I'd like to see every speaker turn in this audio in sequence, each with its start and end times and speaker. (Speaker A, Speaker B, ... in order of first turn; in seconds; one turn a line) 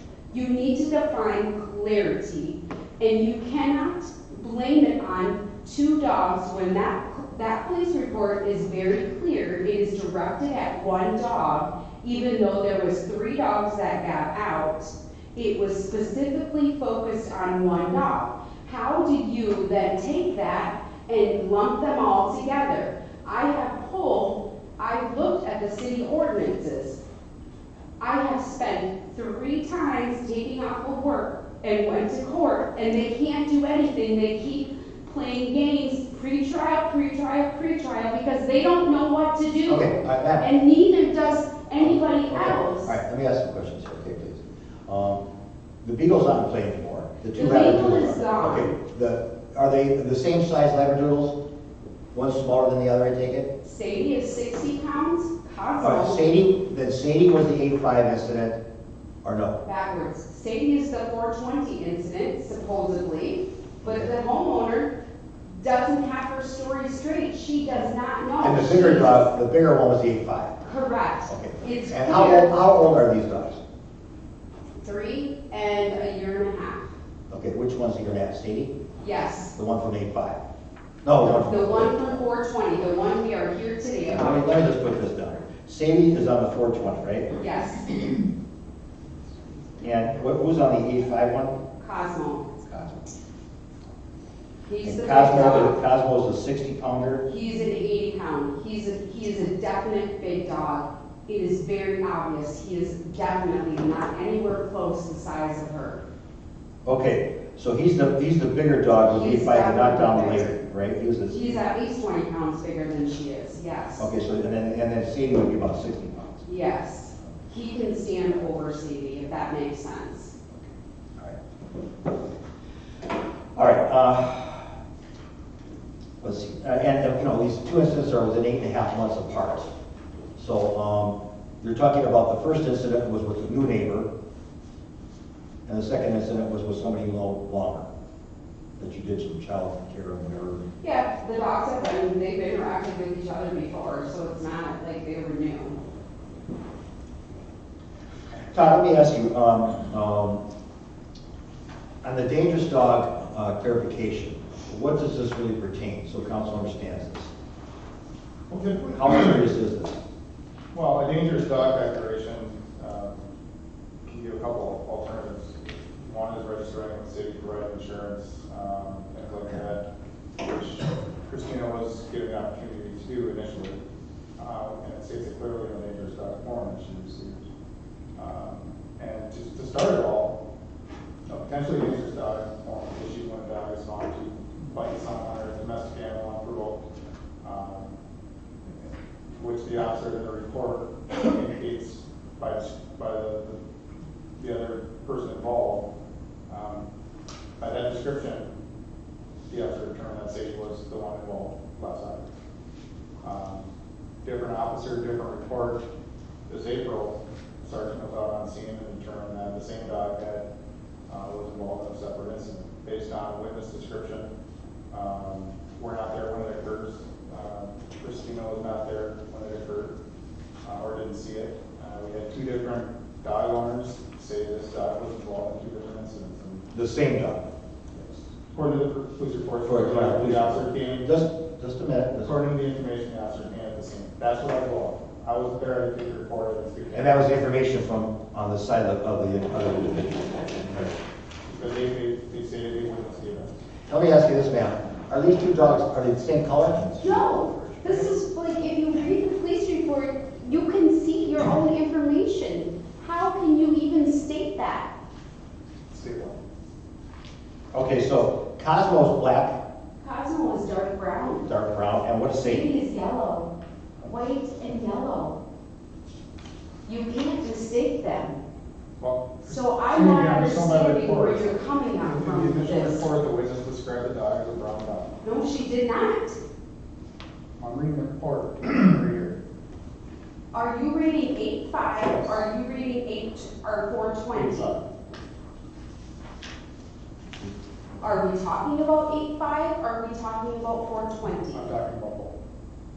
Speaker A: 0.3-27.0
Speaker A: 28.0-42.9
Speaker B: 39.6-40.5
Speaker B: 41.8-45.2
Speaker B: 45.8-51.4
Speaker A: 47.3-48.7
Speaker B: 52.1-53.5
Speaker A: 53.6-56.3
Speaker B: 55.8-58.6
Speaker B: 59.2-59.6
Speaker A: 59.6-64.9
Speaker B: 63.8-64.1
Speaker A: 65.5-69.3
Speaker B: 68.4-70.6
Speaker A: 70.6-72.5
Speaker B: 71.3-73.6
Speaker A: 74.8-76.9
Speaker B: 77.3-78.8
Speaker A: 79.0-79.5
Speaker B: 79.5-80.4
Speaker B: 81.0-82.2
Speaker A: 81.2-84.5
Speaker B: 84.1-87.3
Speaker A: 87.3-88.2
Speaker B: 89.8-91.6
Speaker A: 91.8-92.7
Speaker A: 94.7-95.8
Speaker B: 94.8-97.2
Speaker A: 97.3-106.0
Speaker B: 106.8-111.5
Speaker A: 109.0-110.6
Speaker A: 111.3-114.1
Speaker B: 114.0-116.4
Speaker A: 116.4-120.3
Speaker B: 123.5-124.7
Speaker B: 126.2-129.7
Speaker B: 130.3-134.1
Speaker B: 135.7-137.9
Speaker B: 138.8-140.6
Speaker A: 140.8-145.8
Speaker B: 148.5-150.4
Speaker B: 152.0-157.3
Speaker C: 158.5-159.4
Speaker B: 158.8-160.0
Speaker C: 160.7-163.3
Speaker C: 164.0-169.8
Speaker C: 170.4-173.8
Speaker C: 174.4-177.5
Speaker C: 178.2-180.3
Speaker C: 181.3-186.8
Speaker C: 187.4-187.9
Speaker C: 188.6-193.6
Speaker C: 194.4-195.9
Speaker C: 196.5-196.8
Speaker C: 197.6-198.5
Speaker C: 199.5-202.3
Speaker C: 203.2-203.7
Speaker C: 204.2-205.8
Speaker C: 206.5-210.4
Speaker C: 211.1-214.3
Speaker C: 214.9-219.9
Speaker C: 220.6-226.7
Speaker B: 226.7-227.4
Speaker C: 228.0-231.1
Speaker B: 229.6-232.3
Speaker C: 232.2-237.2
Speaker B: 236.9-240.9
Speaker C: 241.5-243.5
Speaker B: 243.9-247.8
Speaker A: 247.0-254.9
Speaker C: 255.9-256.4
Speaker B: 257.7-259.6
Speaker A: 260.0-261.5
Speaker B: 261.4-262.7
Speaker A: 262.4-263.5
Speaker A: 264.0-265.4
Speaker A: 266.8-268.4
Speaker C: 269.0-275.1
Speaker A: 269.4-273.1
Speaker A: 275.2-276.4
Speaker C: 277.6-279.3
Speaker A: 280.5-284.8
Speaker C: 282.0-282.3
Speaker C: 284.3-284.8
Speaker A: 288.0-291.7
Speaker C: 291.5-292.3